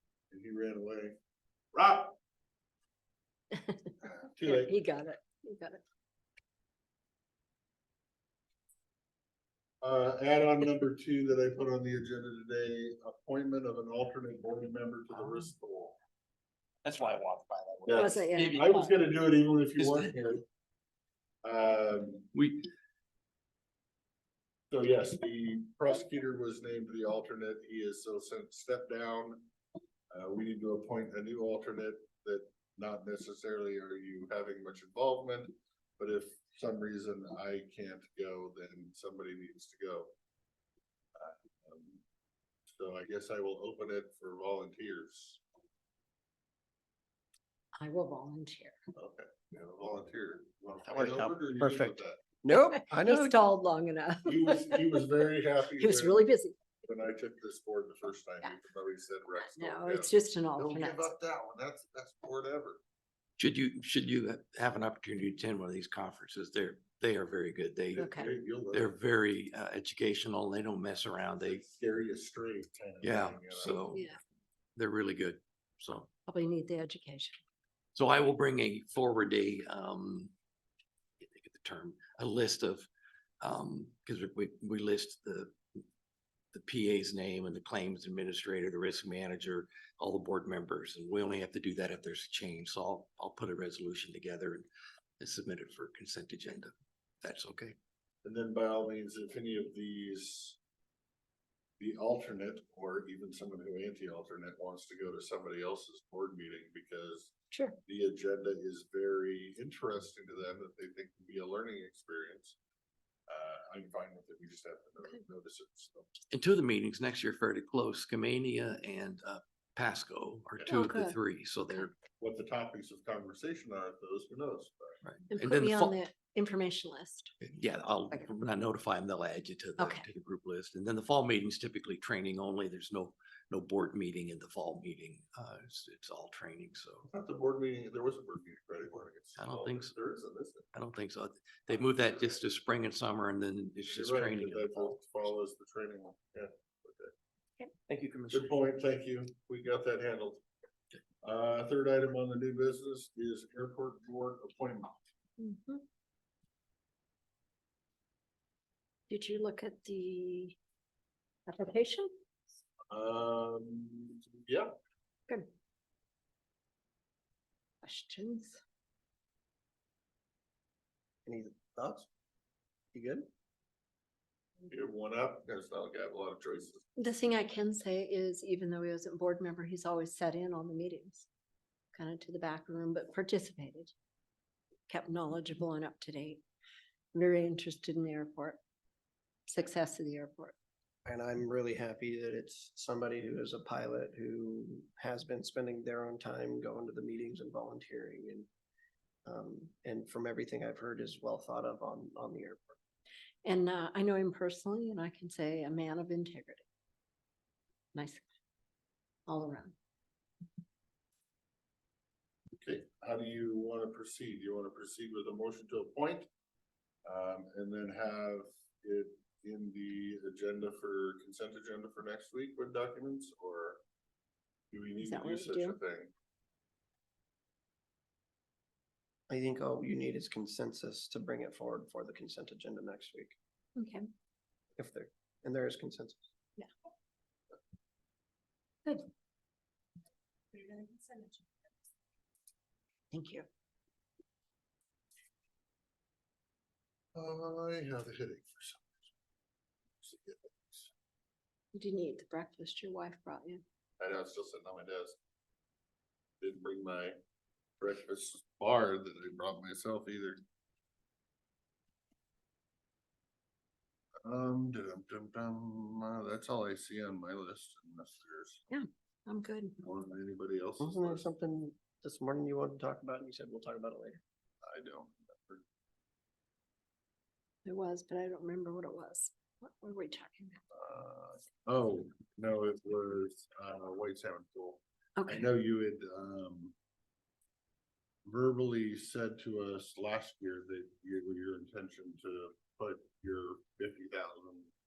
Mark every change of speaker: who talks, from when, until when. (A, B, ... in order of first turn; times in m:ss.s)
0:00.3-0:01.2 A
0:01.7-0:02.1 A
0:03.6-0:03.9 B
0:04.0-0:04.8 A
0:04.4-0:05.8 B
0:09.8-0:16.0 A
0:16.8-0:18.8 C
0:17.9-0:20.5 A
0:18.0-0:18.9 B
0:19.8-0:20.1 C
0:21.4-0:22.3 A
0:22.3-0:22.6 C
0:24.7-0:29.5 A
0:30.1-0:40.1 A
0:41.2-0:42.0 A
0:42.7-0:45.4 A
0:47.8-0:48.8 B
0:48.9-0:52.2 A
0:50.9-0:53.4 D
0:52.6-0:55.0 B
0:54.3-0:56.3 A
0:55.8-0:56.6 B
0:56.8-1:02.8 A
0:59.5-1:01.1 B
1:03.4-1:08.1 C
1:08.0-1:09.0 A
1:08.0-1:08.3 B
1:08.7-1:11.6 C
1:11.4-1:14.0 A
1:13.0-1:14.1 C
1:13.9-1:14.2 B
1:14.8-1:16.1 C
1:16.3-1:17.4 B
1:18.0-1:20.3 C
1:21.2-1:22.9 C
1:23.4-1:25.8 C
1:26.5-1:34.7 C
1:35.2-1:37.8 C
1:38.2-1:40.6 A
1:41.8-1:47.3 A
1:47.5-1:47.8 B
1:47.9-1:52.6 A
1:53.3-1:56.1 A
1:56.3-2:01.9 C
2:00.7-2:01.2 B
2:02.2-2:05.0 A
2:05.0-2:06.0 C
2:05.3-2:07.3 B
2:07.4-2:17.1 C
2:09.8-2:10.1 B
2:17.1-2:20.7 A
2:19.4-2:19.9 C
2:20.7-2:25.0 C
2:23.9-2:27.1 A
2:27.9-2:28.5 C
2:28.3-2:30.4 A
2:31.2-2:34.9 A
2:35.4-2:35.8 B
2:39.1-2:40.6 B
2:41.5-2:42.1 B
2:42.9-2:44.7 A
2:47.8-2:48.6 B
2:51.3-2:52.1 D
2:52.9-2:53.3 D
2:54.7-2:56.8 A
2:57.0-3:01.3 B
3:01.9-3:03.9 B
3:04.9-3:06.4 B
3:07.1-3:08.6 B
3:09.5-3:10.6 B
3:11.1-3:18.5 D
3:19.2-3:22.7 D
3:23.4-3:26.6 B
3:27.9-3:28.2 B
3:29.3-3:29.8 B
3:32.6-3:36.3 A
3:37.1-3:43.8 A
3:44.7-3:46.1 A
3:45.0-3:45.8 B
3:49.3-3:53.4 D
3:53.8-3:54.1 B
3:54.8-3:56.2 D
4:00.5-4:01.4 B
4:03.1-4:03.5 B
4:07.2-4:09.1 A
4:10.0-4:10.9 A
4:11.7-4:13.6 B
4:14.0-4:15.2 A
4:16.4-4:17.2 A
4:17.8-4:20.4 A
4:24.2-4:28.6 A
4:28.7-4:29.8 B
4:29.8-4:31.3 A
4:30.8-4:34.2 D
4:34.6-4:35.6 A
4:37.6-4:40.6 B
4:40.7-4:46.8 A
4:45.2-4:45.5 B
4:48.2-4:54.7 A